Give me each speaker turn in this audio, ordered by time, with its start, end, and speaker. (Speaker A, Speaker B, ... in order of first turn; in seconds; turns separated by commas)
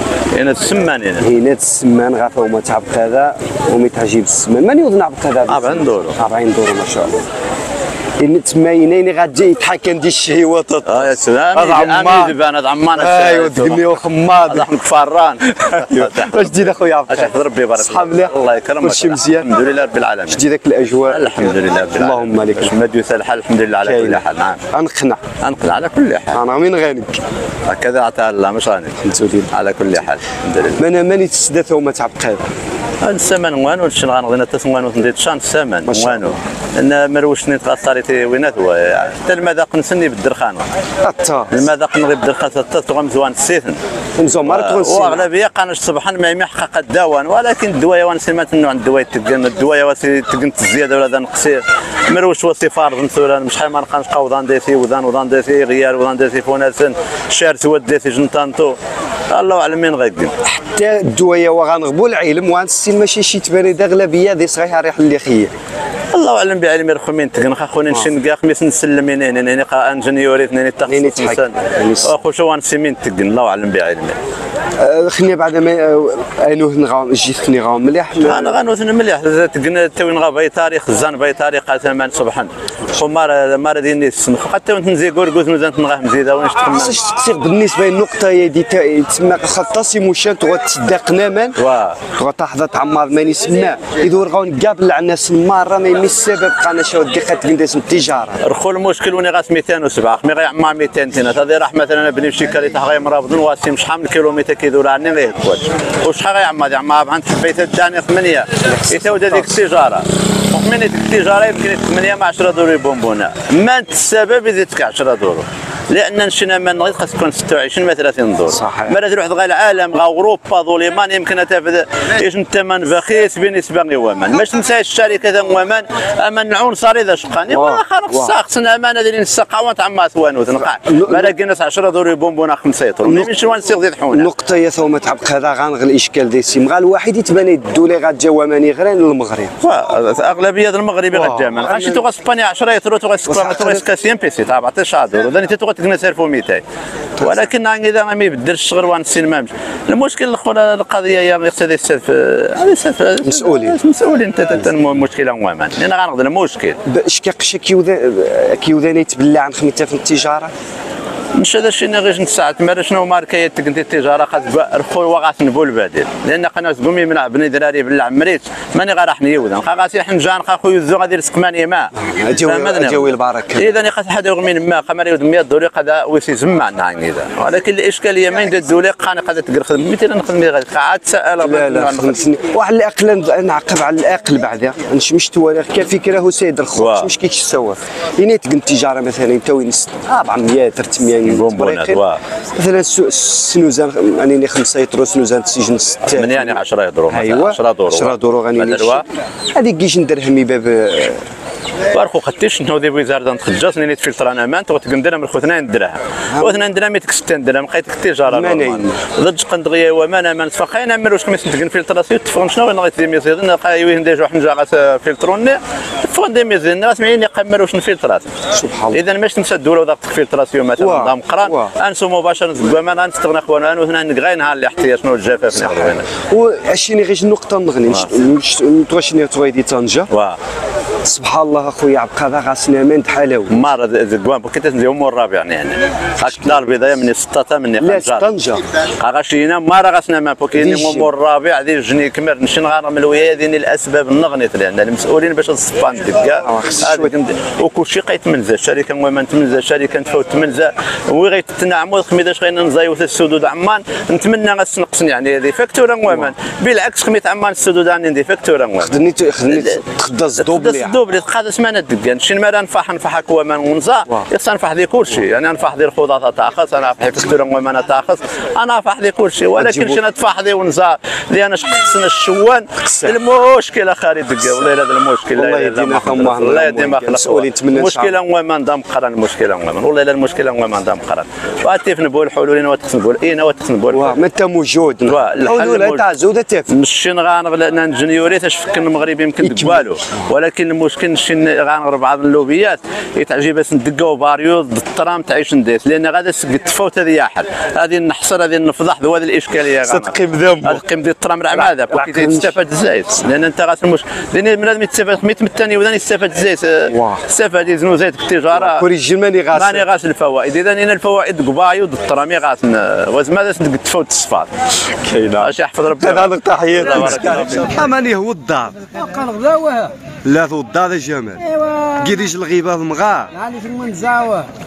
Speaker A: 0.3-1.3, Speaker B: 1.2-7.2, Speaker A: 5.5-6.1, Speaker B: 8.2-12.4, Speaker A: 10.8-13.9, Speaker B: 12.9-14.7, Speaker A: 14.4-20.4, Speaker B: 15.4-19.5, Speaker B: 20.3-22.7, Speaker A: 21.1-24.6, Speaker B: 23.8-25.2, Speaker A: 25.4-26.4, Speaker B: 26.3-27.2, Speaker A: 27.7-29.0, Speaker B: 29.0-29.6, Speaker A: 29.5-30.8, Speaker B: 30.8-32.5, Speaker A: 33.0-40.6, Speaker B: 35.9-36.4, Speaker B: 41.0-41.7, Speaker A: 41.5-43.8, Speaker B: 44.2-45.3, Speaker A: 44.5-58.8, Speaker A: 59.3-60.3, Speaker B: 60.4-65.5, Speaker A: 66.1-74.2, Speaker B: 70.9-72.1, Speaker B: 74.8-78.5, Speaker A: 78.2-87.0, Speaker B: 86.6-91.6, Speaker A: 91.6-92.0, Speaker B: 92.1-98.4, Speaker A: 98.4-134.3, Speaker B: 108.7-109.5, Speaker B: 118.5-119.0, Speaker B: 127.5-128.3, Speaker B: 130.5-131.3, Speaker B: 133.0-133.3, Speaker B: 134.1-139.6, Speaker A: 139.6-146.6, Speaker B: 141.1-142.0, Speaker B: 143.3-143.8, Speaker B: 147.2-147.5, Speaker A: 147.2-156.8, Speaker B: 153.2-153.8, Speaker B: 156.8-160.5, Speaker A: 161.4-171.9, Speaker B: 172.0-173.7, Speaker A: 172.4-182.2, Speaker B: 181.4-192.0, Speaker A: 186.8-187.1, Speaker A: 191.2-192.2, Speaker B: 192.6-201.2, Speaker A: 196.1-199.0, Speaker A: 201.9-218.3, Speaker B: 206.3-206.6, Speaker B: 208.3-209.0, Speaker B: 218.5-219.0, Speaker A: 218.9-226.1, Speaker B: 220.8-221.7, Speaker B: 225.5-230.1, Speaker A: 230.1-230.4, Speaker B: 231.0-233.7, Speaker A: 233.5-238.2, Speaker B: 236.1-237.0, Speaker B: 237.8-238.6, Speaker A: 239.0-259.0, Speaker B: 240.5-241.1, Speaker B: 246.3-247.1, Speaker B: 256.1-256.3, Speaker B: 258.8-261.0, Speaker A: 259.5-259.8, Speaker A: 260.4-284.1, Speaker B: 269.6-270.0, Speaker B: 272.8-273.2, Speaker B: 275.3-278.2, Speaker B: 283.9-286.7, Speaker A: 285.1-286.0, Speaker A: 286.7-308.8, Speaker B: 289.4-290.3, Speaker B: 299.8-300.8, Speaker B: 301.5-302.5, Speaker B: 306.9-307.2, Speaker B: 308.5-309.8, Speaker A: 309.5-314.5, Speaker B: 314.8-318.8, Speaker A: 315.4-317.8, Speaker C: 317.4-317.9, Speaker C: 318.9-319.9, Speaker B: 320.2-321.4, Speaker C: 321.4-322.3, Speaker B: 322.0-323.3, Speaker C: 323.3-324.5